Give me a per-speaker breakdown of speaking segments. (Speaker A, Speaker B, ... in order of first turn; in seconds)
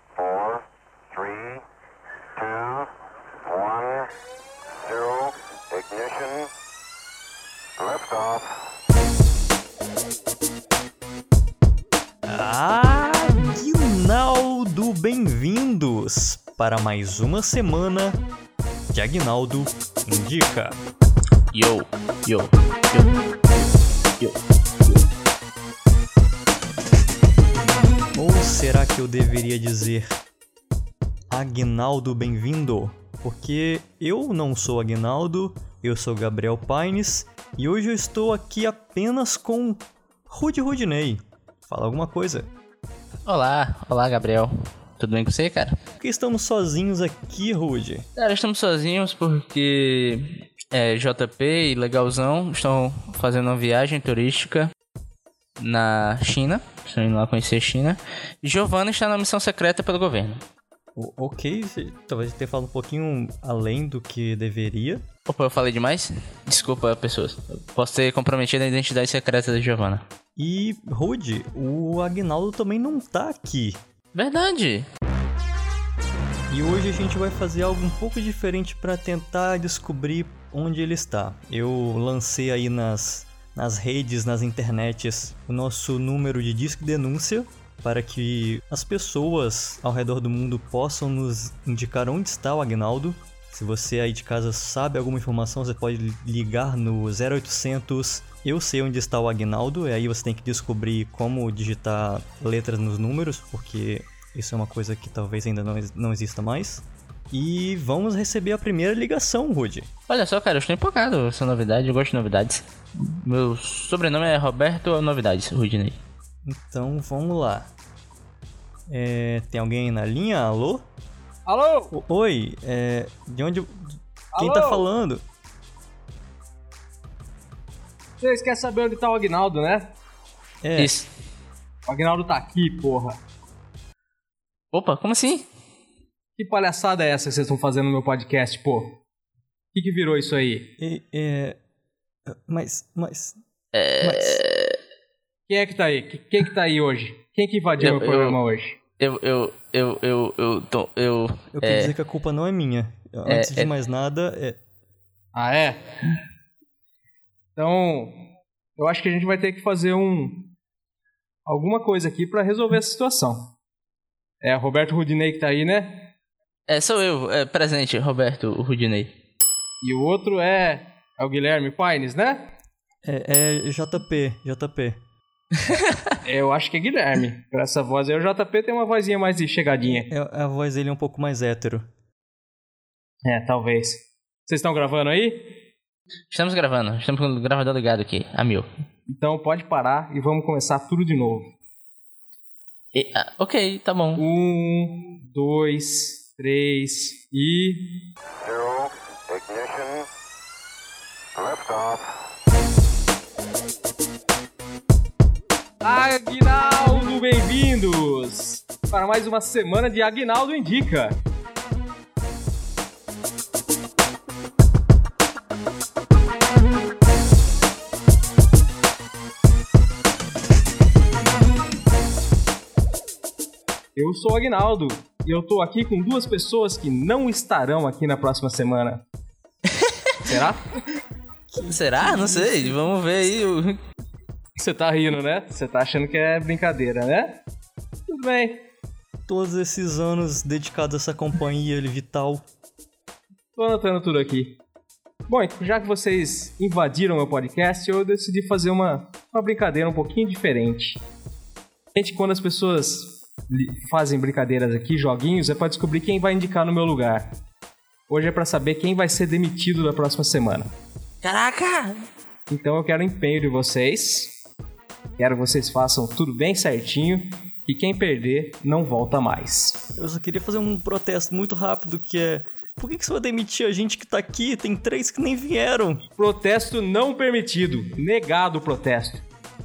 Speaker A: 4.9-6.5, 7.8-8.4, 198.4-200.1, 201.4-202.0
Speaker B: 12.2-18.2, 18.9-20.8, 28.1-30.2, 31.3-42.5, 46.0-48.1, 61.0-65.0, 70.4-73.8, 76.5-109.9, 116.5-117.7, 118.9-120.8, 121.9-125.2, 130.6-130.9, 140.8-141.6, 142.3-143.4, 144.0-144.4, 151.5-154.6, 173.0-175.0, 179.9-181.9, 231.5-232.8, 239.3-242.4, 270.0-276.0
Speaker C: 21.5-25.1, 43.3-45.8, 48.2-54.7, 55.6-60.4, 65.3-70.0, 74.1-74.9, 110.1-116.0, 130.8-131.1, 134.7-135.5, 143.7-144.8, 147.8-148.4, 149.0-151.9, 153.3-153.7, 166.7-169.1, 175.7-176.0, 186.3-188.7, 192.9-194.2, 231.6-233.8, 261.2-262.1
Speaker D: 121.5-121.9, 124.3-124.8, 128.2-129.9, 131.9-133.2, 136.4-139.0, 139.7-140.8, 145.5-148.8, 155.3-155.8, 157.6-160.5, 161.5-163.5, 164.4-166.1, 169.8-172.5, 176.2-180.1, 183.2-185.6, 189.1-191.5, 194.2-198.1, 205.8-211.2, 224.0-229.0, 230.2-230.7, 234.6-237.4, 238.1-238.7, 243.6-244.6, 245.3-251.0, 251.9-257.4, 258.1-260.7, 262.5-264.4, 265.2-269.9, 276.2-279.2